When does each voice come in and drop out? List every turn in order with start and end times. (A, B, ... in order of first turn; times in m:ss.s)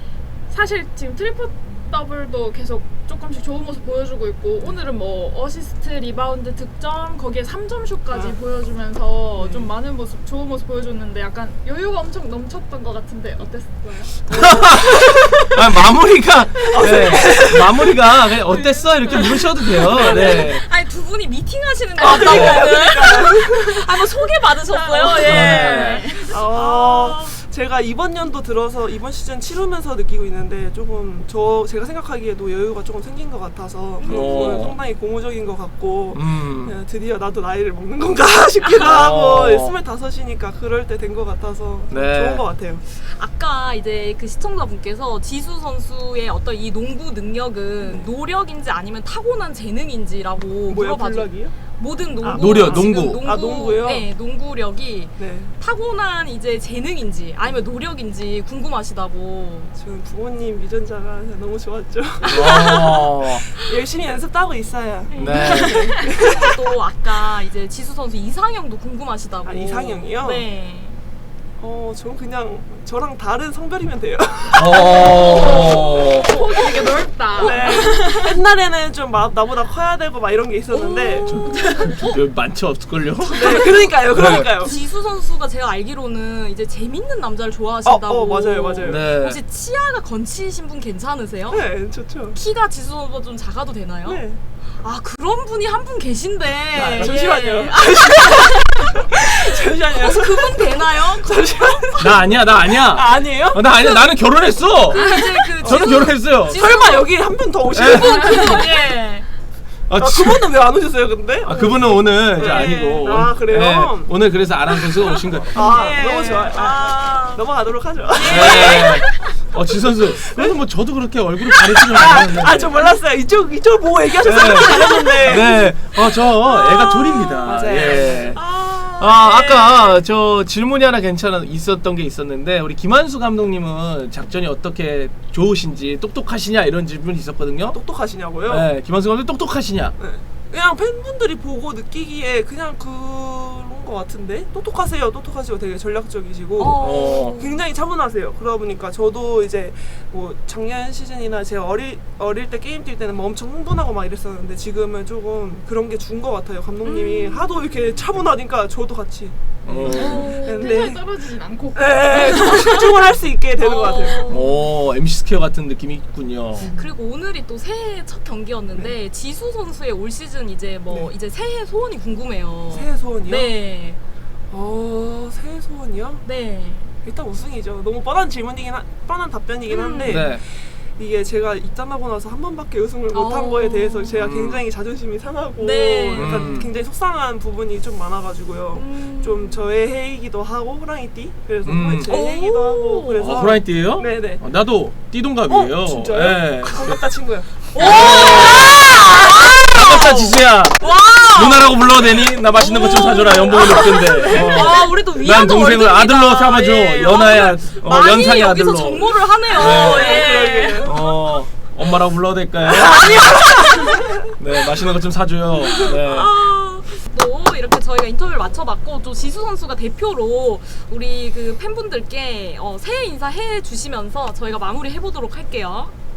0:00.5-0:14.4 A
0:08.1-0:08.4 B
0:09.4-0:09.7 B
0:14.3-0:20.6 C
0:14.3-0:14.6 B
0:16.6-0:17.2 A
0:16.7-0:18.0 B
0:18.5-0:20.5 A
0:19.7-0:27.4 D
0:22.0-0:23.9 B
0:22.2-0:22.7 C
0:24.7-0:26.5 A
0:25.2-0:26.1 C
0:26.3-0:42.8 B
0:34.0-0:34.6 D
0:34.0-0:34.8 C
0:36.1-0:36.8 C
0:38.8-0:39.7 C
0:41.9-0:42.4 C
0:43.0-0:59.7 D
0:47.8-0:48.1 B
0:50.7-0:51.6 B
0:52.2-0:54.1 B
0:52.4-0:53.2 C
0:55.2-0:55.6 B
0:59.7-1:02.5 B
1:02.2-1:03.4 C
1:02.2-1:03.0 D
1:03.4-1:06.5 B
1:05.1-1:11.0 D
1:05.2-1:05.9 C
1:05.4-1:06.0 A
1:09.4-1:10.5 B
1:11.6-1:15.5 B
1:14.6-1:16.3 C
1:14.8-1:18.4 A
1:16.6-1:21.4 B
1:17.4-1:17.9 D
1:20.7-1:22.2 A
1:21.3-1:24.5 C
1:23.3-1:31.6 D
1:23.3-1:24.8 B
1:27.8-1:29.1 B
1:28.8-1:29.4 C
1:31.5-1:32.4 B
1:32.3-1:34.2 D
1:34.0-1:34.4 B
1:34.8-1:42.3 D
1:36.7-1:41.9 B
1:42.0-1:46.6 C
1:42.4-1:43.7 B
1:43.7-1:44.2 D
1:44.8-1:47.1 D
1:45.0-1:48.6 B
1:47.7-1:48.6 C
1:47.8-1:49.3 D
1:49.9-1:50.6 C
1:50.0-1:54.1 B
1:51.4-1:55.6 C
1:52.4-1:53.1 D
1:55.5-1:57.4 D
1:55.5-1:59.0 B
1:58.1-1:59.3 D
1:58.3-2:02.7 C
2:00.2-2:00.6 B
2:01.8-2:05.6 B
2:04.2-2:08.4 C
2:04.6-2:05.7 D
2:06.4-2:07.6 D
2:07.4-2:08.4 B
2:08.1-2:10.0 D
2:09.0-2:17.8 C
2:17.7-2:18.7 B
2:18.5-2:20.0 C
2:20.0-2:41.2 B
2:26.6-2:27.6 D
2:26.8-2:27.4 C
2:36.8-2:37.5 D
2:39.6-2:40.3 C
2:39.9-2:42.8 A
2:39.9-2:40.7 D
2:41.8-2:44.3 B
2:42.3-2:42.8 D
2:43.6-2:44.6 D
2:44.3-2:46.7 C
2:46.6-2:54.0 D
2:52.7-2:53.5 B
2:54.5-2:56.2 B
2:56.2-2:56.9 D
2:57.0-3:14.4 B
2:59.7-3:00.4 D
3:00.0-3:00.4 C
3:03.1-3:04.2 D
3:04.2-3:04.6 C
3:05.6-3:06.7 D
3:06.2-3:06.7 C
3:08.7-3:09.6 D
3:11.6-3:12.2 C
3:12.0-3:13.4 D
3:13.2-3:17.0 C
3:15.5-3:18.0 B
3:17.7-3:31.0 D
3:17.8-3:18.8 C
3:19.7-3:33.5 C
3:23.7-3:24.6 B
3:29.6-3:31.0 B
3:32.8-3:34.1 B
3:34.4-3:36.3 C
3:35.8-3:45.9 D